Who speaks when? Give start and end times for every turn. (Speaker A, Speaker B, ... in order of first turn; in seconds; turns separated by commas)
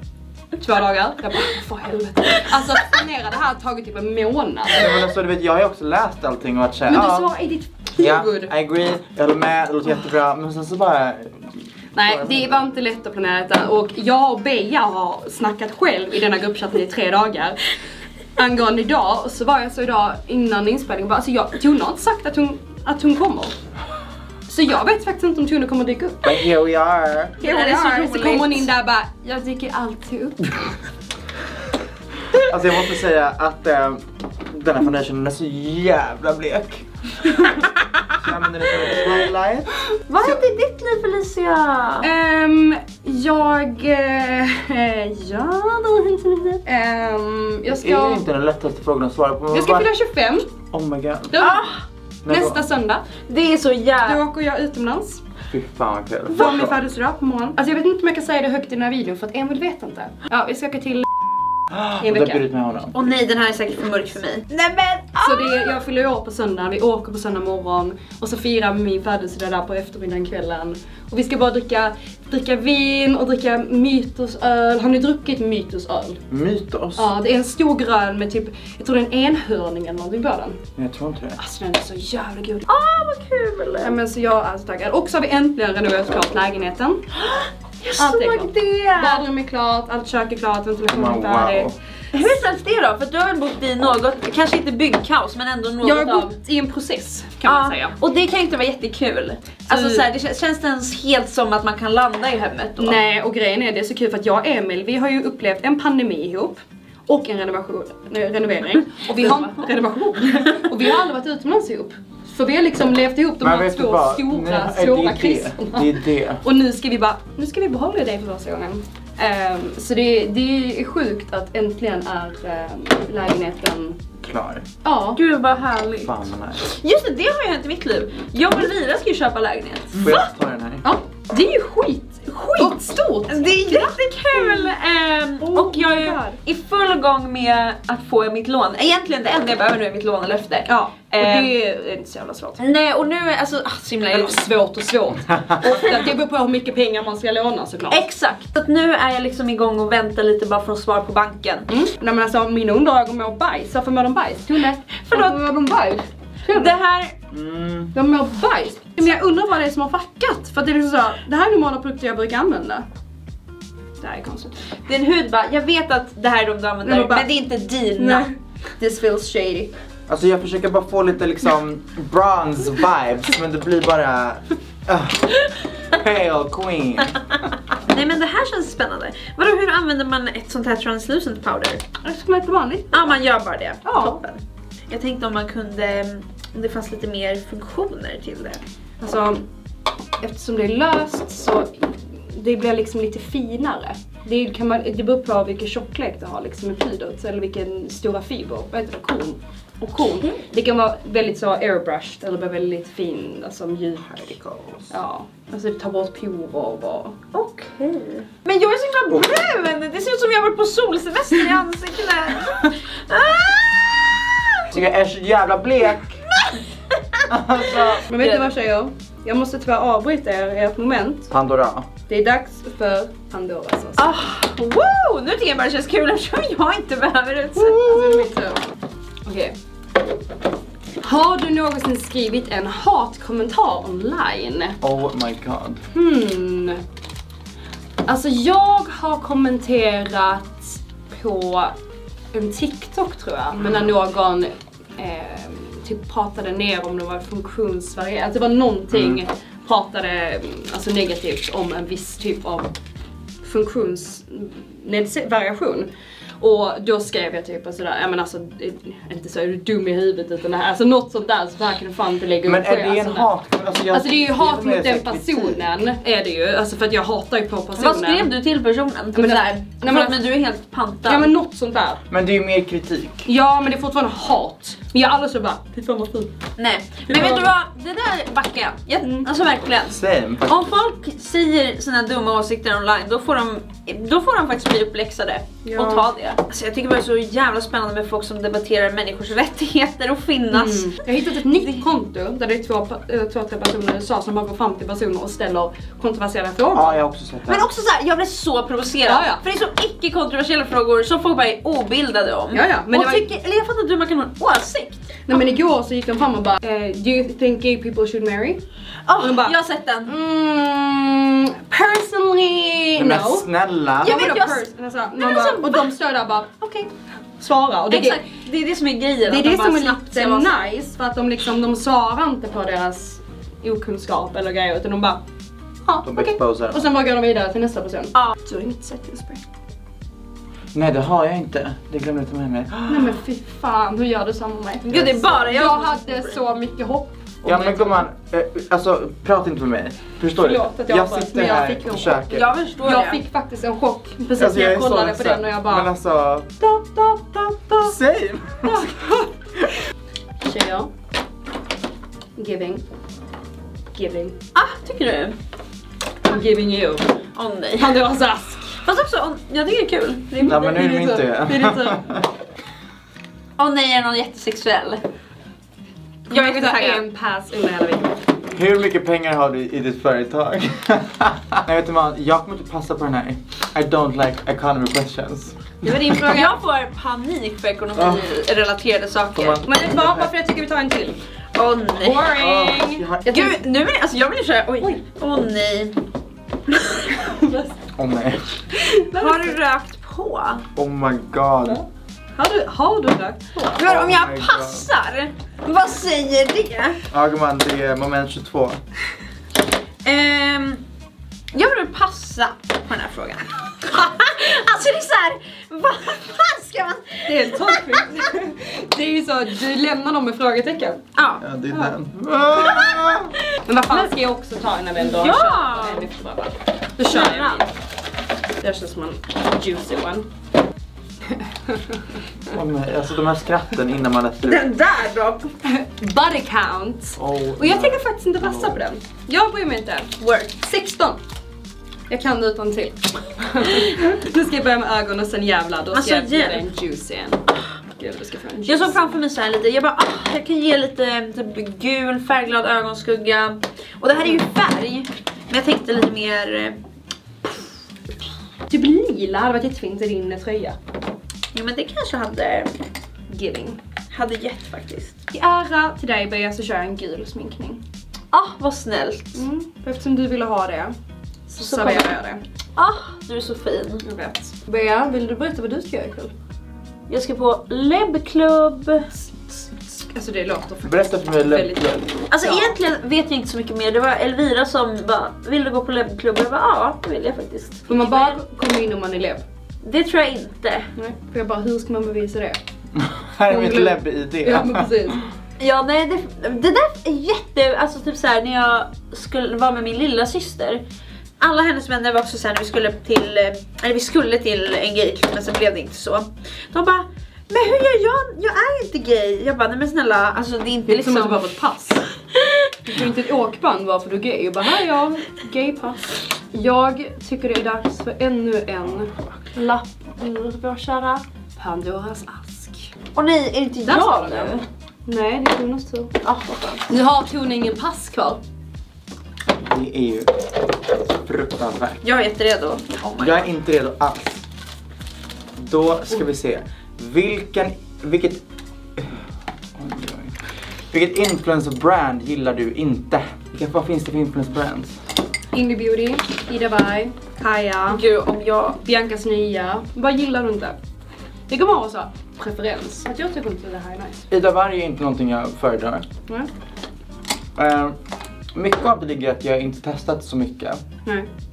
Speaker A: 0.6-4.9, Speaker B: 4.7-7.3, Speaker A: 6.9-8.5, Speaker B: 8.0-12.6, Speaker A: 11.9-17.7, Speaker A: 18.4-23.6, Speaker A: 24.5-26.3, Speaker B: 26.2-27.4, Speaker A: 27.4-30.5, Speaker C: 27.4-28.7, Speaker B: 32.3-37.4, Speaker B: 38.2-39.8, Speaker C: 40.1-42.1, Speaker A: 42.0-48.2, Speaker B: 47.7-49.9, Speaker A: 49.5-50.5, Speaker B: 50.7-51.4, Speaker A: 51.3-51.7, Speaker C: 51.4-51.8, Speaker B: 52.2-52.6, Speaker A: 52.3-53.1, Speaker C: 53.3-54.2, Speaker A: 54.0-55.2, Speaker B: 55.5-56.8, Speaker A: 56.3-61.1, Speaker B: 61.7-63.0, Speaker A: 62.0-62.4, Speaker C: 62.9-65.8, Speaker A: 65.2-76.2, Speaker B: 76.3-77.1, Speaker A: 77.0-80.6, Speaker B: 80.8-81.4, Speaker A: 81.4-82.7, Speaker C: 82.7-84.0, Speaker A: 83.8-87.0, Speaker C: 87.2-89.2, Speaker A: 88.0-91.7, Speaker B: 90.9-91.8, Speaker C: 92.1-96.3, Speaker A: 95.8-98.0, Speaker C: 97.4-103.0, Speaker A: 99.7-100.0, Speaker A: 102.8-124.0, Speaker C: 109.2-109.6, Speaker B: 113.4-116.4, Speaker B: 124.2-124.7, Speaker A: 124.8-125.2, Speaker C: 125.2-130.2, Speaker B: 126.0-126.7, Speaker B: 130.0-130.8, Speaker A: 130.8-134.7, Speaker C: 132.3-141.6, Speaker A: 135.4-136.4, Speaker A: 140.7-142.7, Speaker C: 142.6-144.5, Speaker A: 144.1-148.1, Speaker B: 145.3-145.6, Speaker C: 147.9-151.7, Speaker A: 151.7-156.8, Speaker C: 155.1-155.3, Speaker C: 156.5-157.2, Speaker B: 157.3-157.9, Speaker A: 157.9-162.8, Speaker A: 164.0-164.7, Speaker C: 164.9-168.3, Speaker A: 166.8-167.3, Speaker A: 168.0-169.7, Speaker B: 170.1-177.6, Speaker C: 177.9-181.8, Speaker A: 182.0-183.2, Speaker C: 182.9-188.6, Speaker A: 183.8-184.2, Speaker A: 189.0-189.5, Speaker A: 190.2-204.4, Speaker C: 200.0-200.4, Speaker A: 204.9-207.2, Speaker C: 207.3-214.7, Speaker B: 214.7-216.2, Speaker C: 216.3-217.3, Speaker B: 217.3-218.1, Speaker C: 217.8-218.5, Speaker A: 218.1-221.3, Speaker B: 221.3-221.9, Speaker A: 222.1-224.1, Speaker C: 224.0-228.3, Speaker A: 227.5-228.7, Speaker A: 229.3-229.6, Speaker A: 231.0-234.8, Speaker B: 234.8-235.8, Speaker A: 235.9-236.8, Speaker A: 238.1-241.8, Speaker A: 242.3-252.7, Speaker B: 248.9-249.2, Speaker A: 253.4-255.9, Speaker A: 256.4-263.3, Speaker B: 262.4-265.7, Speaker A: 263.9-268.3, Speaker C: 267.8-271.3, Speaker A: 269.1-270.3, Speaker A: 271.1-272.0, Speaker B: 272.1-273.3, Speaker A: 273.3-276.3, Speaker C: 276.6-291.8, Speaker A: 277.1-277.5, Speaker A: 279.0-279.3, Speaker B: 279.9-280.5, Speaker A: 285.6-286.0, Speaker A: 290.5-297.0, Speaker B: 296.7-297.7, Speaker C: 297.5-305.2, Speaker A: 299.1-299.4, Speaker A: 302.5-303.3, Speaker A: 305.3-308.6, Speaker C: 309.1-310.1, Speaker A: 309.2-309.6, Speaker A: 310.1-313.5, Speaker B: 313.0-314.2, Speaker A: 314.0-318.2, Speaker C: 314.0-314.6, Speaker C: 315.2-315.9, Speaker C: 317.9-320.7, Speaker A: 319.3-325.2, Speaker A: 325.9-329.4, Speaker B: 326.0-326.9, Speaker B: 330.7-333.2, Speaker A: 332.9-338.1, Speaker C: 334.8-336.4, Speaker B: 334.9-335.3, Speaker B: 337.4-342.5, Speaker A: 340.4-342.3, Speaker C: 342.3-343.2, Speaker A: 342.8-345.9, Speaker B: 344.4-346.6, Speaker A: 346.6-347.9, Speaker B: 347.8-348.9, Speaker A: 348.6-349.3, Speaker A: 350.4-350.9, Speaker A: 352.4-352.8, Speaker A: 353.9-354.4, Speaker C: 354.6-355.4, Speaker A: 356.2-357.1, Speaker C: 357.4-358.0, Speaker A: 357.8-358.8, Speaker C: 358.8-360.9, Speaker B: 360.4-362.3, Speaker A: 360.4-362.0, Speaker C: 363.6-365.0, Speaker C: 366.3-367.0, Speaker A: 366.3-368.3, Speaker B: 368.5-376.0, Speaker A: 375.8-376.6, Speaker C: 376.1-379.6, Speaker B: 378.0-378.2, Speaker B: 379.4-380.3, Speaker A: 379.6-381.2, Speaker C: 381.6-382.4, Speaker A: 382.0-383.6, Speaker B: 382.3-383.3, Speaker C: 383.3-386.0, Speaker C: 386.7-387.0, Speaker A: 387.0-387.8, Speaker B: 387.9-388.6, Speaker A: 388.7-389.6, Speaker C: 389.1-390.7, Speaker B: 390.8-391.8, Speaker A: 392.4-393.9, Speaker C: 393.8-397.0, Speaker B: 393.8-394.9, Speaker B: 397.1-398.8, Speaker C: 400.0-400.8, Speaker C: 401.5-408.3, Speaker A: 407.3-411.0, Speaker C: 411.2-411.4, Speaker B: 411.4-413.4, Speaker A: 413.7-417.7, Speaker C: 415.0-416.1, Speaker C: 417.1-417.6, Speaker A: 418.6-420.3, Speaker B: 422.5-424.7, Speaker C: 424.4-425.5, Speaker A: 425.6-431.2, Speaker B: 427.2-428.8, Speaker C: 430.2-430.5, Speaker A: 432.1-437.4, Speaker C: 435.9-436.6, Speaker A: 438.0-439.2, Speaker C: 438.7-446.8, Speaker A: 448.7-450.8, Speaker C: 451.5-452.7, Speaker A: 453.3-453.8, Speaker C: 454.1-455.2, Speaker A: 455.3-457.8, Speaker C: 458.3-459.4, Speaker A: 459.4-460.9, Speaker A: 461.5-462.4, Speaker C: 461.6-462.1, Speaker C: 462.8-464.0, Speaker A: 464.0-466.3, Speaker C: 467.1-469.1, Speaker A: 469.1-472.8, Speaker B: 470.9-472.1, Speaker C: 472.3-478.4, Speaker A: 477.9-479.4, Speaker C: 479.8-480.9, Speaker A: 481.0-482.6, Speaker B: 482.9-485.3, Speaker A: 483.5-485.2, Speaker C: 485.6-490.8, Speaker C: 491.4-501.4, Speaker A: 500.9-502.1, Speaker A: 502.8-512.9, Speaker C: 513.1-514.6, Speaker A: 513.9-516.1, Speaker C: 516.2-516.8, Speaker A: 516.9-518.4, Speaker B: 519.5-520.4, Speaker B: 521.1-522.0, Speaker C: 522.0-523.5, Speaker B: 523.2-524.5, Speaker B: 525.6-528.4, Speaker B: 529.0-530.4, Speaker B: 530.9-535.0, Speaker A: 535.5-538.0, Speaker C: 537.9-538.8, Speaker A: 538.8-540.8, Speaker A: 541.5-544.3, Speaker B: 544.3-546.1, Speaker B: 547.6-548.0, Speaker B: 548.5-550.8